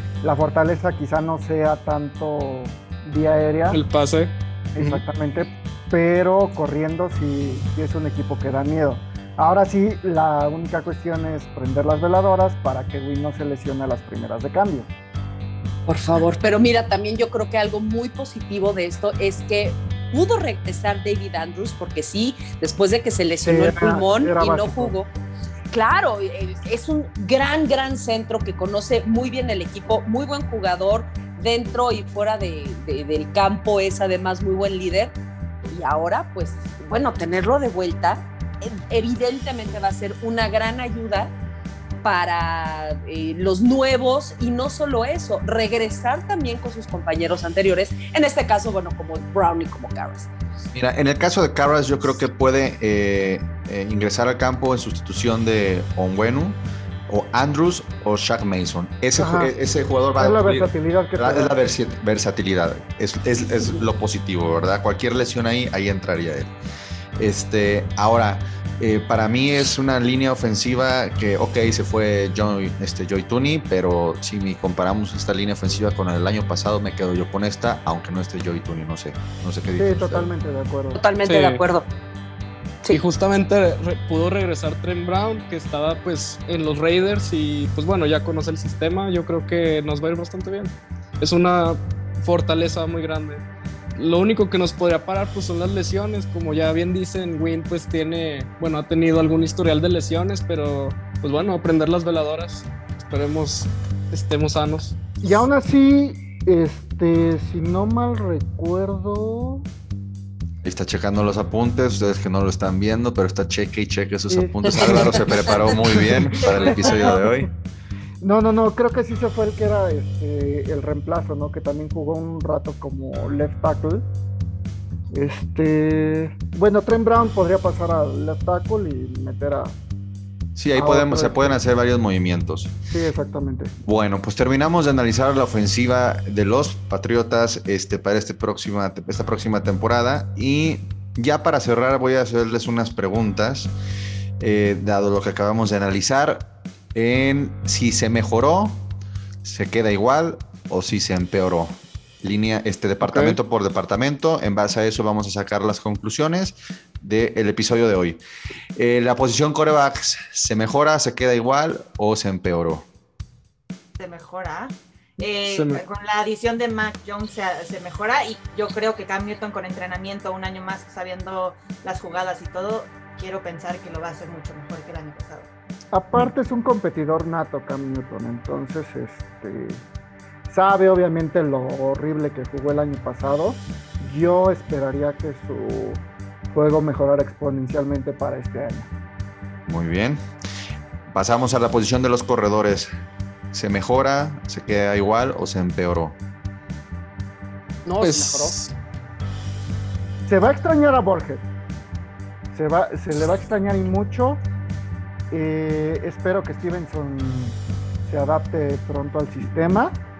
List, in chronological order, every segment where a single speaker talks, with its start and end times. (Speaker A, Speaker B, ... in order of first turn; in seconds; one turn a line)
Speaker A: 0.2-3.8
Speaker B: 3.7-5.0
Speaker A: 4.8-14.9
Speaker C: 15.9-25.1
Speaker A: 23.4-24.9
Speaker C: 25.7-35.1
Speaker C: 35.7-41.3
Speaker C: 42.0-50.3
Speaker D: 50.7-66.5
Speaker A: 59.2-59.5
Speaker A: 60.2-61.5
Speaker D: 67.2-80.3
Speaker A: 79.8-81.0
Speaker C: 81.0-81.9
Speaker B: 81.2-81.6
Speaker B: 82.9-93.4
Speaker B: 94.0-105.0
Speaker A: 105.2-109.7
Speaker D: 110.6-117.5
Speaker A: 114.3-117.3
Speaker E: 116.5-117.0
Speaker A: 118.2-124.1
Speaker A: 125.1-129.8
Speaker D: 130.6-132.7
Speaker A: 130.7-131.6
Speaker A: 132.9-133.7
Speaker D: 133.8-143.7
Speaker D: 144.4-148.8
Speaker D: 149.4-158.2
Speaker A: 153.0-153.4
Speaker D: 158.8-162.9
Speaker E: 164.0-175.5
Speaker B: 165.5-165.8
Speaker A: 175.9-179.8
Speaker A: 180.5-188.9
Speaker D: 189.7-190.2
Speaker D: 191.1-192.9
Speaker D: 193.5-196.2
Speaker C: 197.8-198.6
Speaker B: 198.0-198.7
Speaker A: 200.3-201.5
Speaker A: 202.5-204.4
Speaker A: 205.3-210.0